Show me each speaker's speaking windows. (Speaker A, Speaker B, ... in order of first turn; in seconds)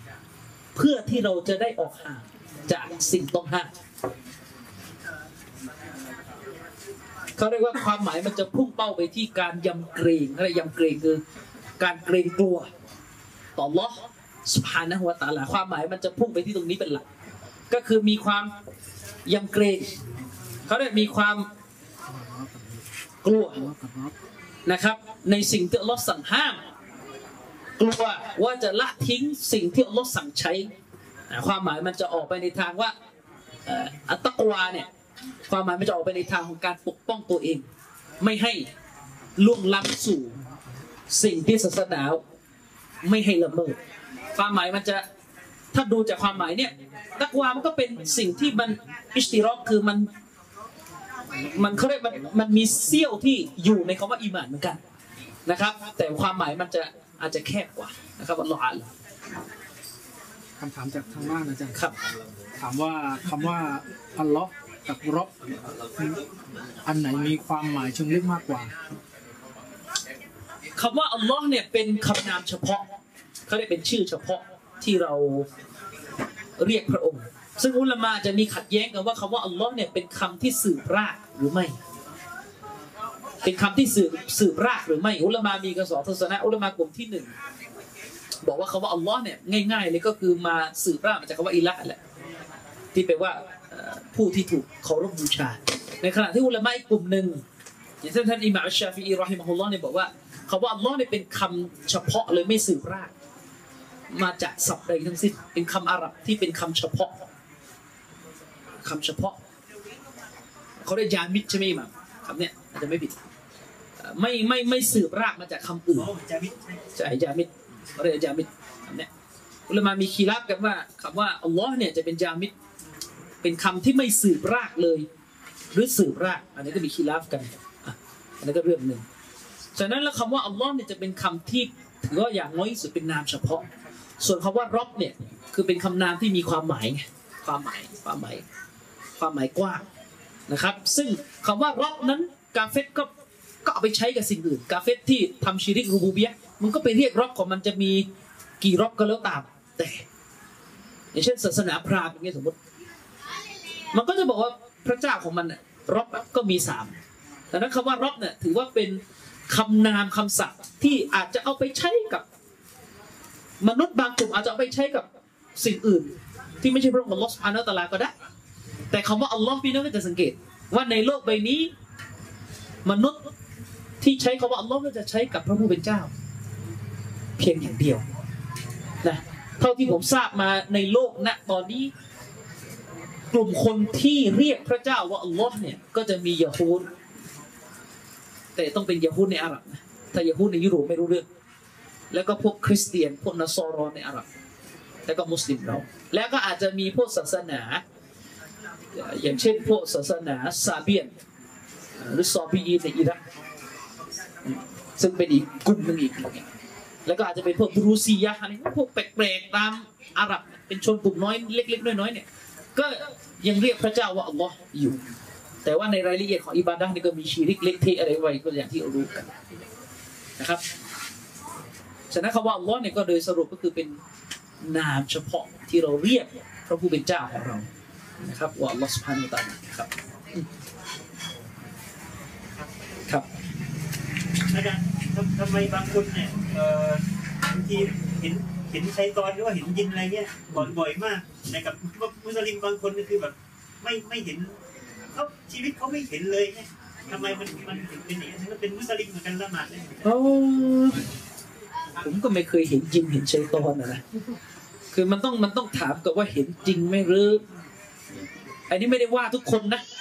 Speaker A: 0.7-3.7, 7.4-11.2, 11.8-12.7, 13.6-17.0, 17.7-18.5, 19.3-19.9, 20.7-21.5, 23.2-23.6, 24.6-26.6, 27.8-30.7, 31.3-32.9, 33.6-34.9, 35.5-37.6, 38.2-38.7, 39.4-40.4, 41.1-42.2, 43.0-43.8, 44.4-45.0, 45.7-50.1, 51.5-54.8, 55.5-58.9, 70.8-72.8, 73.5-75.5, 76.6-81.7, 83.4-87.3, 88.4-92.0, 92.9-97.4, 98.0-103.1, 104.1-107.2, 108.8-109.4, 110.8-113.3, 114.0-116.1, 117.0-119.1, 119.7-122.5, 123.4-125.0, 125.7-129.0, 129.8-133.7, 134.2-138.4, 139.2-139.8, 140.5-143.1, 143.6-148.0, 148.6-150.1, 151.1-152.6, 153.9-156.9, 157.5-162.2, 163.6-168.1, 168.9-171.7, 172.8-173.3, 174.0-176.1, 177.4-178.0, 179.0-181.9, 183.3-186.9, 188.5-191.2, 192.1-194.2, 195.1-197.8, 198.9-201.1, 202.0-203.2, 204.4-206.4, 207.1-215.0, 215.6-219.4, 220.4-220.6, 222.1-224.0, 224.6-227.7, 228.2-230.4, 250.0-251.0, 252.0-254.0, 254.9-257.4, 258.7-259.8
Speaker B: 22.1-22.7, 23.6-24.1, 60.6-61.8, 62.6-65.3, 66.8-68.7
Speaker C: 115.9-116.8, 234.5-244.6, 245.1-250.2